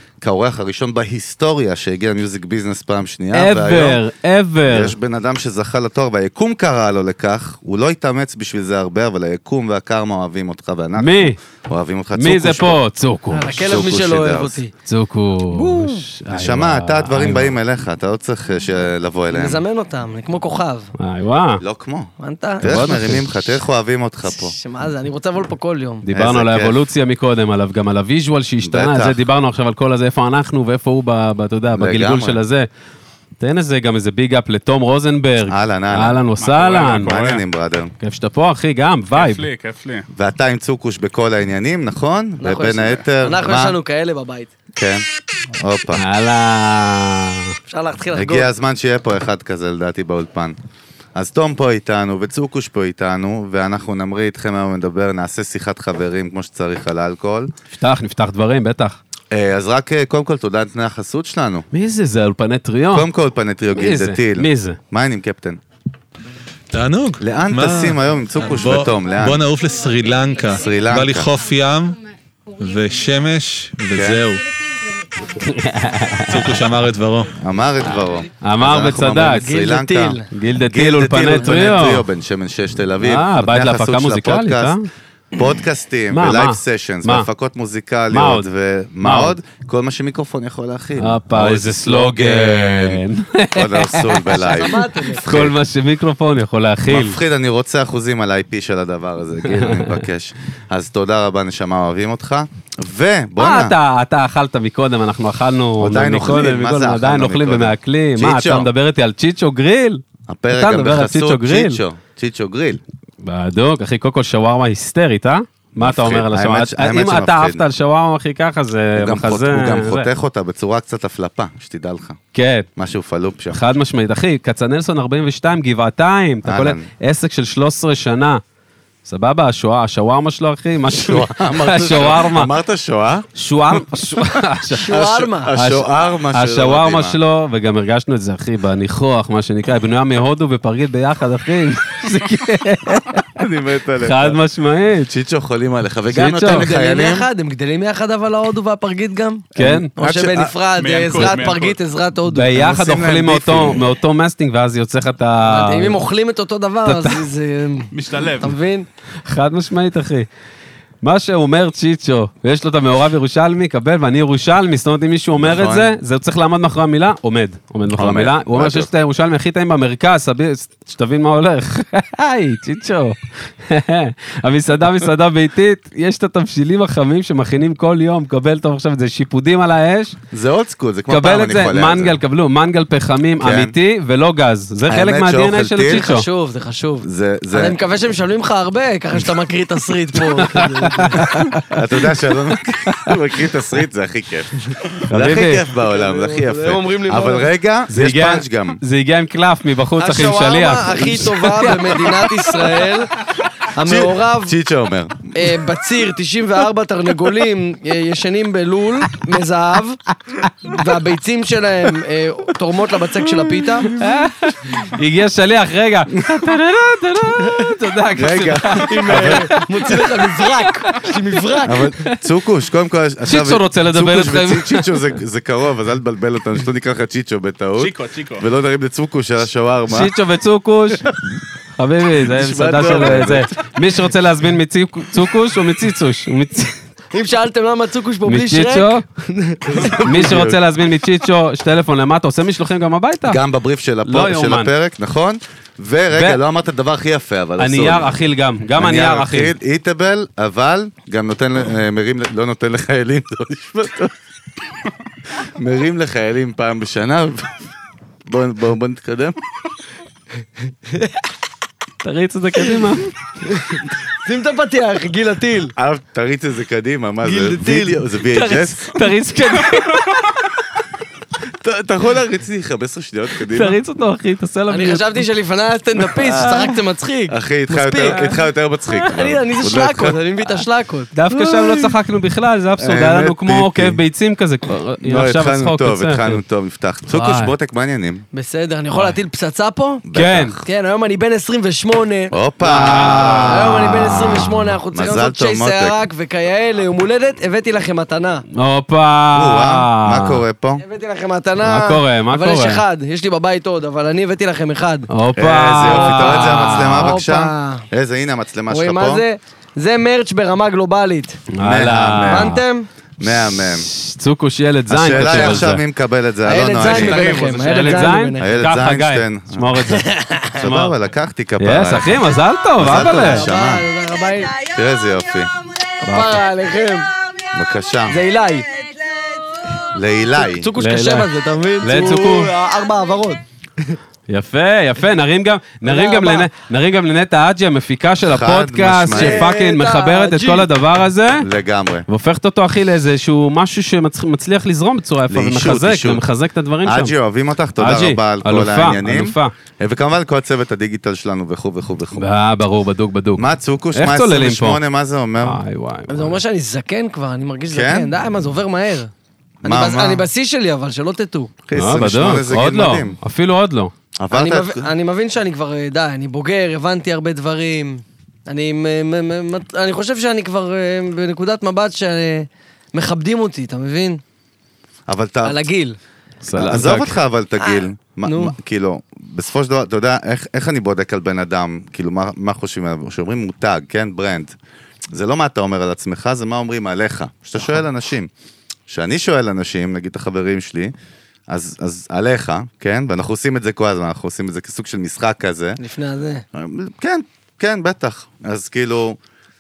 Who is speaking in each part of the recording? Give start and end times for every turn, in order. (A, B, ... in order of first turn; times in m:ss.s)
0:00.2-0:04.0 A
0:03.3-0:05.0 B
0:04.6-0:12.8 A
0:11.0-0:11.4 B
0:12.2-0:13.6 B
0:13.3-0:14.7 C
0:13.4-0:14.6 A
0:14.9-0:17.6 B
0:15.5-0:16.1 C
0:16.3-0:19.6 A
0:19.3-0:20.9 C
0:21.0-0:21.6 B
0:21.6-0:24.6 A
0:22.2-0:23.2 C
0:22.6-0:23.3 B
0:24.3-0:26.0 C
0:26.0-0:32.7 B
0:26.1-0:26.8 A
0:28.6-0:29.2 A
0:31.7-0:32.4 A
0:33.4-0:37.1 B
0:35.5-0:36.2 A
0:36.4-0:37.4 D
0:36.9-0:37.9 A
0:38.0-0:39.5 B
0:39.2-0:40.1 D
0:40.1-0:43.8 A
0:42.4-0:44.5 C
0:44.8-0:46.0 A
0:46.0-0:47.6 B
0:47.7-0:48.5 C
0:48.1-0:50.6 A
0:51.2-0:57.5 A
0:57.7-0:59.0 B
0:59.3-1:01.7 A
1:01.7-1:03.1 B
1:02.9-1:05.6 A
1:03.7-1:04.8 B
1:06.7-1:12.0 E
1:07.2-1:09.5 A
1:10.6-1:11.3 A
1:12.6-1:14.5 E
1:13.9-1:14.2 A
1:15.4-1:16.5 B
1:16.3-1:17.4 E
1:17.4-1:24.8 A
1:18.4-1:19.5 B
1:19.3-1:20.3 C
1:20.3-1:22.0 B
1:21.3-1:21.8 C
1:23.0-1:24.8 B
1:25.3-1:35.6 A
1:26.1-1:27.3 B
1:28.1-1:28.5 B
1:29.0-1:29.4 B
1:31.0-1:34.6 B
1:34.4-1:35.2 C
1:35.1-1:37.2 B
1:36.9-1:43.8 A
1:39.4-1:40.0 B
1:43.4-1:50.0 B
1:45.8-1:48.7 A
1:50.3-1:52.8 A
1:50.6-1:51.8 B
1:53.2-2:00.1 B
1:55.8-1:57.6 A
1:59.0-2:02.2 A
2:02.3-2:02.7 B
2:02.8-2:03.6 A
2:03.5-2:08.4 B
2:06.4-2:06.9 A
2:09.0-2:12.5 B
2:10.9-2:14.0 A
2:13.4-2:15.0 B
2:14.7-2:15.5 C
2:14.9-2:17.2 A
2:15.6-2:23.4 B
2:23.4-2:24.4 A
2:24.0-2:25.1 B
2:25.1-2:27.3 A
2:26.1-2:26.7 B
2:26.4-2:32.7 C
2:29.6-2:29.9 B
2:30.0-2:30.6 A
2:30.8-2:31.8 D
2:32.3-2:36.0 B
2:32.5-2:33.9 A
2:35.4-2:38.9 C
2:36.8-2:37.2 B
2:37.9-2:38.6 D
2:39.2-2:40.3 B
2:41.0-3:00.2 B
2:45.4-2:46.0 A
2:47.9-2:48.9 A
3:00.3-3:02.2 A
3:01.1-3:06.3 B
3:03.4-3:03.8 A
3:04.9-3:06.1 A
3:05.9-3:11.4 C
3:07.0-3:07.8 A
3:10.4-3:12.0 B
3:11.7-3:18.8 A
3:15.1-3:15.6 B
3:15.7-3:17.5 C
3:17.9-3:22.8 B
3:20.0-3:24.6 C
3:23.8-3:25.6 A
3:25.4-3:30.0 C
3:30.6-3:34.0 C
3:33.3-3:42.2 B
3:38.2-3:39.6 A
3:38.8-3:41.9 C
3:41.6-3:50.1 A
3:43.3-3:45.0 B
3:47.8-3:48.4 D
3:49.9-3:51.1 B
3:51.8-3:56.8 B
3:52.2-3:53.5 A
3:57.1-4:00.3 C
3:58.3-3:59.0 B
3:59.7-4:00.6 A
4:00.0-4:03.4 B
4:03.2-4:08.2 A
4:04.0-4:04.7 B
4:06.1-4:06.4 B
4:07.6-4:09.5 B
4:08.8-4:14.1 A
4:15.4-4:17.6 A
4:18.2-4:19.4 A
4:20.9-4:21.1 C
4:22.0-4:23.1 B
4:23.4-4:25.7 C
4:25.8-4:29.1 A
4:27.2-4:28.1 C
4:28.2-4:30.5 B
4:31.4-4:33.8 A
4:33.5-4:35.2 B
4:34.7-4:38.4 C
4:36.1-4:36.8 B
4:37.3-4:40.2 A
4:39.0-4:41.9 C
4:41.1-4:46.4 B
4:42.8-4:44.0 A
4:45.0-4:48.2 A
4:47.1-4:47.5 B
4:48.3-4:50.0 C
4:50.0-4:50.6 A
4:50.2-4:50.6 B
4:50.6-4:52.4 C
4:52.3-4:54.2 A
4:52.6-4:54.8 B
4:53.0-4:58.4 C
4:54.9-4:56.0 A
4:58.6-5:00.4 B
4:59.3-5:00.8 A
5:00.8-5:05.1 C
5:01.6-5:02.8 B
5:05.1-5:07.2 B
5:05.4-5:09.2 A
5:05.8-5:07.9 C
5:08.7-5:11.4 C
5:11.6-5:12.6 B
5:11.6-5:12.6 A
5:12.3-5:12.9 C
5:13.2-5:13.9 A
5:13.2-5:15.8 B
5:14.9-5:17.4 A
5:16.4-5:18.6 C
5:16.8-5:20.9 B
5:17.0-5:17.8 D
5:18.4-5:19.8 A
5:20.0-5:20.5 C
5:20.6-5:23.9 A
5:21.6-5:23.5 B
5:22.9-5:24.6 C
5:24.7-5:25.5 A
5:26.0-5:27.1 C
5:26.1-5:26.4 B
5:27.5-5:28.2 A
5:28.1-5:28.8 C
5:29.9-5:30.7 A
5:30.4-5:34.0 C
5:30.8-5:31.3 B
5:31.8-5:32.5 B
5:34.3-5:41.5 B
5:35.8-5:36.5 C
5:38.2-5:39.5 A
5:39.1-5:40.7 C
5:41.4-5:42.1 A
5:42.1-5:47.1 B
5:45.3-5:46.2 A
5:46.8-5:52.3 A
5:47.8-5:49.5 B
5:52.2-5:54.8 B
5:53.4-5:55.6 A
5:55.4-5:56.4 B
5:56.1-5:59.1 C
5:57.7-5:58.1 A
5:59.6-6:01.5 C
5:59.6-6:00.2 A
6:01.7-6:03.2 A
6:01.8-6:03.9 B
6:04.2-6:04.9 A
6:04.3-6:14.2 C
6:15.1-6:15.7 A
6:15.4-6:16.0 C
6:16.4-6:17.2 B
6:16.5-6:24.6 A
6:17.6-6:18.6 C
6:25.1-6:28.3 A
6:28.9-6:30.9 A
6:31.5-6:35.8 A
6:35.8-6:36.4 C
6:36.5-6:39.2 A